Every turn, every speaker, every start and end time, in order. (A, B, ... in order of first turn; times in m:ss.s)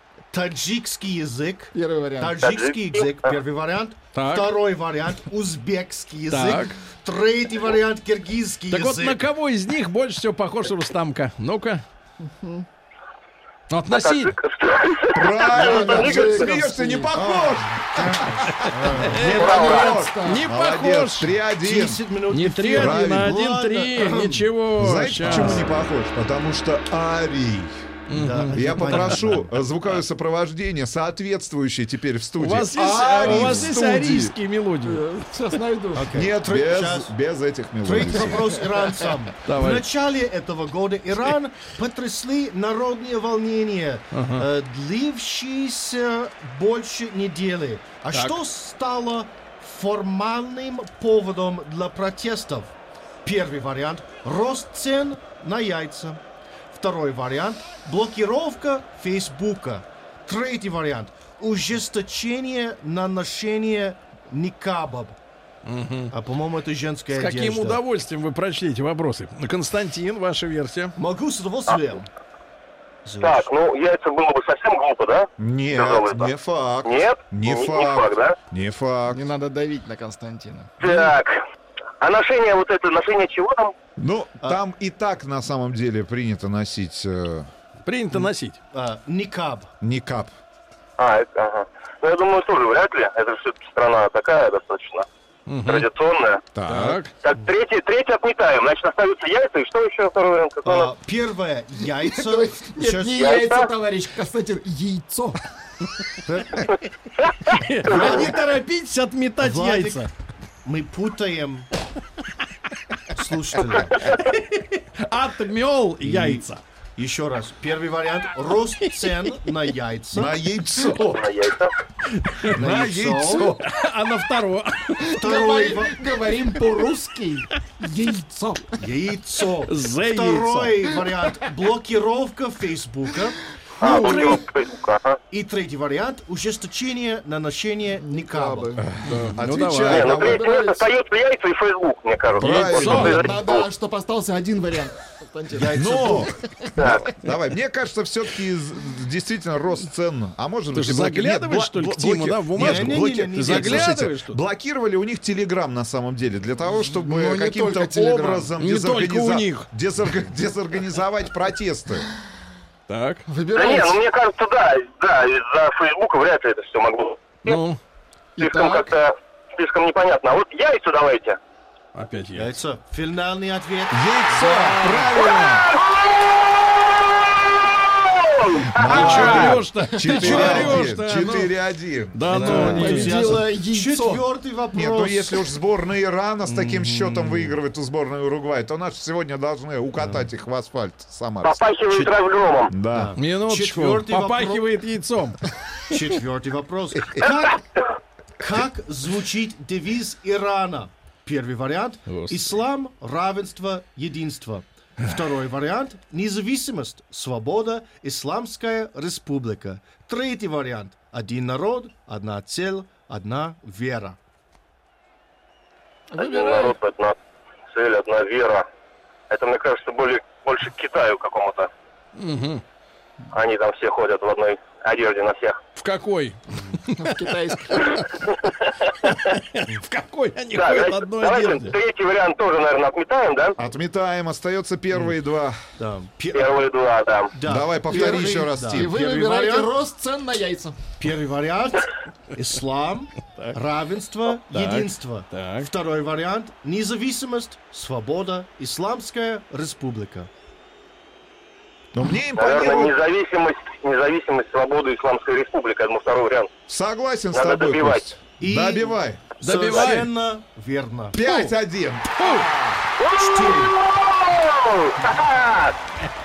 0:00.3-0:09.2 A
0:01.7-0:02.4 B
0:02.4-0:03.3 C
0:04.1-0:04.5 D
0:06.3-0:06.8 D
0:08.7-0:11.8 D
0:13.7-0:14.3 D
0:13.9-0:16.6 C
0:15.1-0:22.0 E
0:15.5-0:17.2 B
0:17.1-0:19.8 A
0:18.6-0:19.5 D
0:19.3-0:20.4 B
0:19.3-0:20.0 C
0:20.2-0:21.3 D
0:21.6-0:24.5 A
0:22.3-0:25.7 D
0:22.7-0:23.4 E
0:24.8-0:27.8 E
0:25.2-0:25.7 A
0:28.1-0:29.2 D
0:28.1-0:29.5 A
0:28.5-0:34.3 E
0:32.4-0:35.0 D
0:33.2-0:33.7 A
0:34.8-0:36.2 B
0:35.9-0:37.1 A
0:36.1-0:38.6 E
0:37.8-0:52.7 A
0:38.4-0:39.1 B
0:39.4-0:39.8 D
0:44.1-0:44.4 D
0:48.1-0:48.4 D
0:53.2-0:56.2 A
0:56.7-1:05.2 A
1:05.6-1:06.1 D
1:06.1-1:07.8 A
1:07.1-1:10.9 D
1:11.0-1:12.1 A
1:13.0-1:13.5 A
1:13.2-1:16.3 C
1:15.4-1:19.2 E
1:16.8-1:18.4 C
1:19.1-1:20.7 B
1:20.8-1:21.4 C
1:22.0-1:23.7 C
1:24.0-1:27.5 E
1:27.8-1:28.6 D
1:28.7-1:29.7 A
1:29.8-1:30.3 E
1:31.0-1:35.1 C
1:35.5-1:35.8 D
1:35.6-1:36.5 C
1:36.5-1:37.0 E
1:36.6-1:37.1 D
1:37.2-1:40.9 C
1:40.6-1:43.3 A
1:42.2-1:45.4 B
1:43.2-1:43.7 C
1:46.2-1:46.7 A
1:47.5-1:50.1 D
1:47.9-1:48.3 A
1:49.4-1:50.1 A
1:50.6-1:51.7 A
1:53.1-1:54.2 A
1:54.1-1:56.6 D
1:56.0-1:56.4 A
1:57.0-2:00.4 A
2:00.1-2:01.3 E
2:01.1-2:01.7 C
2:02.1-2:02.6 D
2:02.5-2:03.6 A
2:02.5-2:03.6 E
2:03.6-2:05.2 D
2:05.2-2:06.0 A
2:05.2-2:08.7 B
2:08.8-2:14.4 A
2:09.7-2:10.8 D
2:13.8-2:15.2 C
2:15.3-2:18.8 A
2:18.0-2:19.3 B
2:19.0-2:20.5 E
2:19.0-2:20.2 D
2:19.9-2:23.7 C
2:20.0-2:20.8 B
2:22.4-2:23.3 E
2:22.4-2:23.2 D
2:22.9-2:26.7 B
2:25.5-2:26.4 A
2:25.7-2:42.0 E
2:26.8-2:27.1 C
2:30.7-2:34.4 D
2:32.5-2:34.0 A
2:36.8-2:38.5 B
2:38.6-2:39.7 D
2:42.9-2:43.2 D
2:43.3-2:44.0 B
2:43.5-2:47.6 C
2:47.4-2:47.8 D
2:48.4-2:48.9 B
2:48.4-2:51.4 C
2:51.9-2:52.5 D
2:52.3-2:55.0 A
2:53.9-2:55.7 E
2:55.1-2:59.4 C
2:58.7-3:02.9 E
2:58.9-3:01.5 D
2:59.8-3:00.4 B
3:00.2-3:00.8 A
3:02.1-3:03.2 D
3:02.3-3:05.4 A
3:02.3-3:04.2 B
3:04.7-3:12.1 E
3:06.4-3:07.6 A
3:11.4-3:12.7 C
3:12.7-3:13.1 E
3:12.9-3:14.7 A
3:13.2-3:15.4 D
3:15.9-3:17.8 A
3:18.4-3:34.2 A
3:22.1-3:22.5 D
3:36.1-3:36.8 B
3:36.2-3:37.1 C
3:37.7-3:38.6 C
3:39.3-3:41.7 C
3:42.2-3:42.6 D
3:43.3-3:45.6 C
3:45.8-3:47.8 D
3:46.5-3:46.8 A
3:47.0-3:48.0 B
3:48.4-3:48.7 C
3:49.0-3:51.7 D
3:50.5-3:53.6 C
3:53.6-3:55.6 E
3:55.8-3:56.6 A
3:56.3-3:57.3 C
3:57.3-3:59.7 A
3:57.4-3:58.9 E
3:57.9-4:00.8 B
4:01.0-4:10.3 A
4:04.5-4:05.7 D
4:11.9-4:13.0 E
4:12.4-4:16.5 C
4:16.7-4:19.3 E
4:17.3-4:18.0 C
4:18.4-4:21.3 A
4:19.4-4:20.1 D
4:21.1-4:22.2 E
4:22.2-4:22.5 D
4:22.3-4:22.7 B
4:23.0-4:25.8 C
4:23.1-4:23.7 A